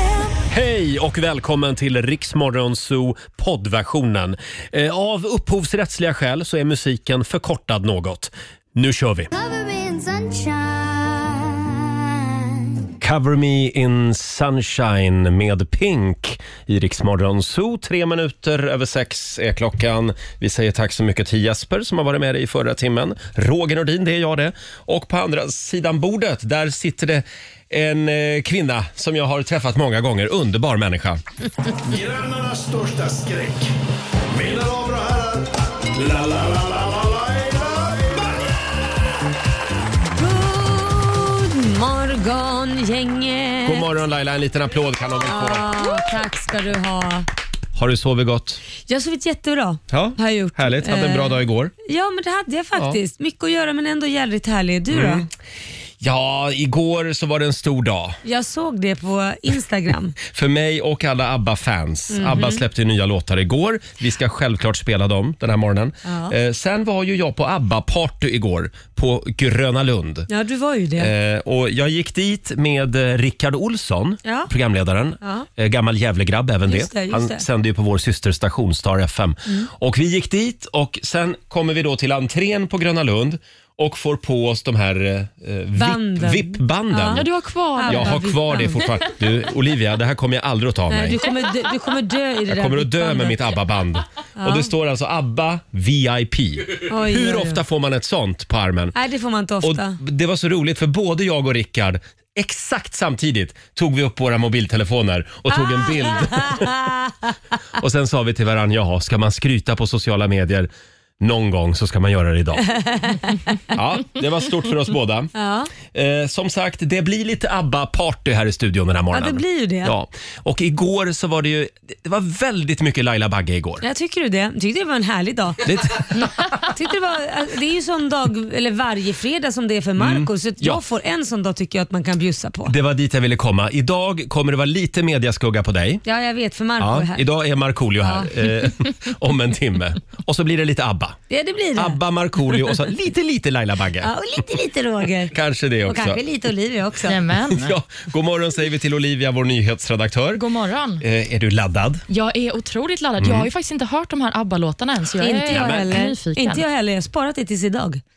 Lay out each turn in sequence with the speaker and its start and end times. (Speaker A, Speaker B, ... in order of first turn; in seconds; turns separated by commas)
Speaker A: 0.5-9.3, Speaker B: 9.3-11.7, Speaker A: 13.0-31.2, Speaker C: 31.9-33.7, Speaker C: 34.3-38.3, Speaker D: 40.1-43.9, Speaker A: 43.6-45.8, Speaker D: 45.2-47.3, Speaker A: 47.7-48.6, Speaker D: 48.9-55.2, Speaker A: 49.9-51.7, Speaker A: 54.9-55.3, Speaker A: 56.0-58.2, Speaker D: 58.2-60.1, Speaker A: 60.3-70.3, Speaker D: 62.1-62.6, Speaker D: 66.0-66.3, Speaker D: 70.3-71.1, Speaker A: 71.0-87.2, Speaker D: 74.2-74.5, Speaker D: 75.2-75.5, Speaker D: 76.7-77.4, Speaker D: 85.8-89.0, Speaker E: 87.1-88.3, Speaker A: 87.8-91.2, Speaker D: 90.9-93.6, Speaker A: 92.5-98.9, Speaker D: 94.4-94.7, Speaker D: 96.9-97.6, Speaker D: 98.9-100.0, Speaker A: 99.6-106.9, Speaker D: 105.5-107.3, Speaker A: 107.8-112.7, Speaker D: 112.7-113.3, Speaker A: 113.7-115.3, Speaker D: 115.3-115.7, Speaker A: 115.8-123.8, Speaker D: 119.1-119.9, Speaker D: 123.8-125.6, Speaker A: 125.6-126.3, Speaker D: 126.7-132.7, Speaker A: 130.0-130.8, Speaker A: 132.7-136.0, Speaker D: 136.0-137.2, Speaker A: 136.8-141.2, Speaker D: 138.0-138.3, Speaker D: 141.3-142.0, Speaker A: 141.8-144.1, Speaker D: 144.0-145.3, Speaker A: 145.3-146.2, Speaker D: 145.8-147.2, Speaker E: 147.0-147.7, Speaker A: 147.5-150.4, Speaker E: 150.3-151.0, Speaker A: 151.0-152.0, Speaker E: 152.1-156.6, Speaker A: 153.2-153.5, Speaker D: 155.2-158.0, Speaker A: 155.5-155.9